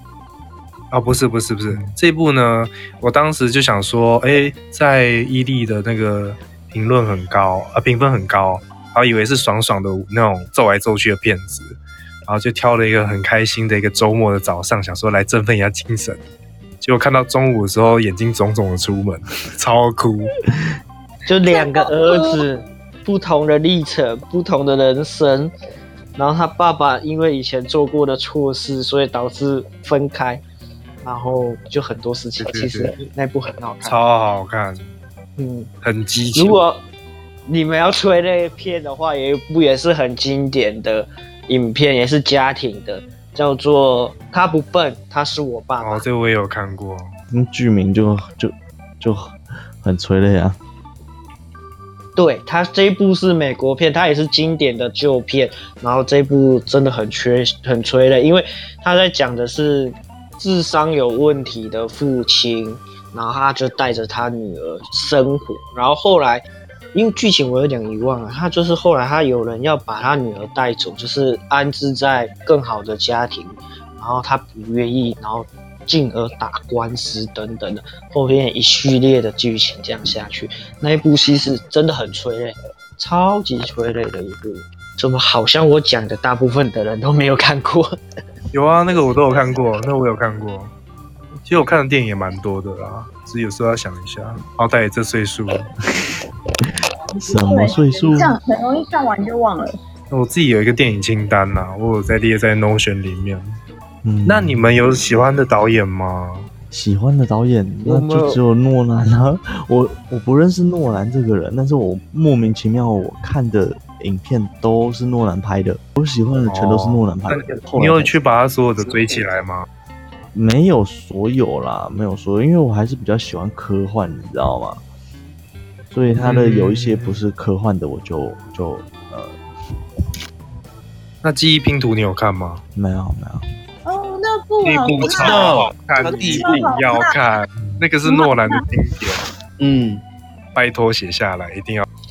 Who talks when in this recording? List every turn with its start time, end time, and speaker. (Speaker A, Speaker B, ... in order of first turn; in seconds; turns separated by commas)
Speaker A: 0.9-16.2, Speaker A: 16.8-20.3, Speaker B: 21.3-25.5, Speaker C: 21.5-22.4, Speaker B: 26.2-30.4, Speaker B: 31.0-34.0, Speaker A: 32.5-33.0, Speaker A: 33.9-34.9, Speaker B: 35.4-35.7, Speaker A: 35.8-36.6, Speaker B: 36.4-36.8, Speaker B: 37.5-46.0, Speaker A: 45.8-47.1, Speaker D: 47.3-50.6, Speaker B: 52.2-87.9, Speaker A: 88.5-90.7, Speaker A: 91.5-95.7, Speaker C: 97.2-99.7, Speaker D: 97.2-98.3, Speaker A: 100.1-103.6, Speaker D: 104.0-104.7, Speaker A: 104.3-106.5, Speaker D: 106.7-118.2, Speaker B: 107.8-108.4, Speaker A: 116.5-119.7, Speaker D: 120.3-124.8, Speaker D: 125.9-129.4, Speaker A: 126.2-127.2, Speaker A: 131.2-132.6, Speaker D: 132.8-133.4, Speaker C: 133.9-135.6, Speaker A: 134.6-139.2, Speaker E: 135.0-136.6, Speaker C: 136.3-137.2, Speaker D: 137.6-137.8, Speaker C: 138.1-138.6, Speaker E: 139.6-140.0, Speaker A: 140.6-141.9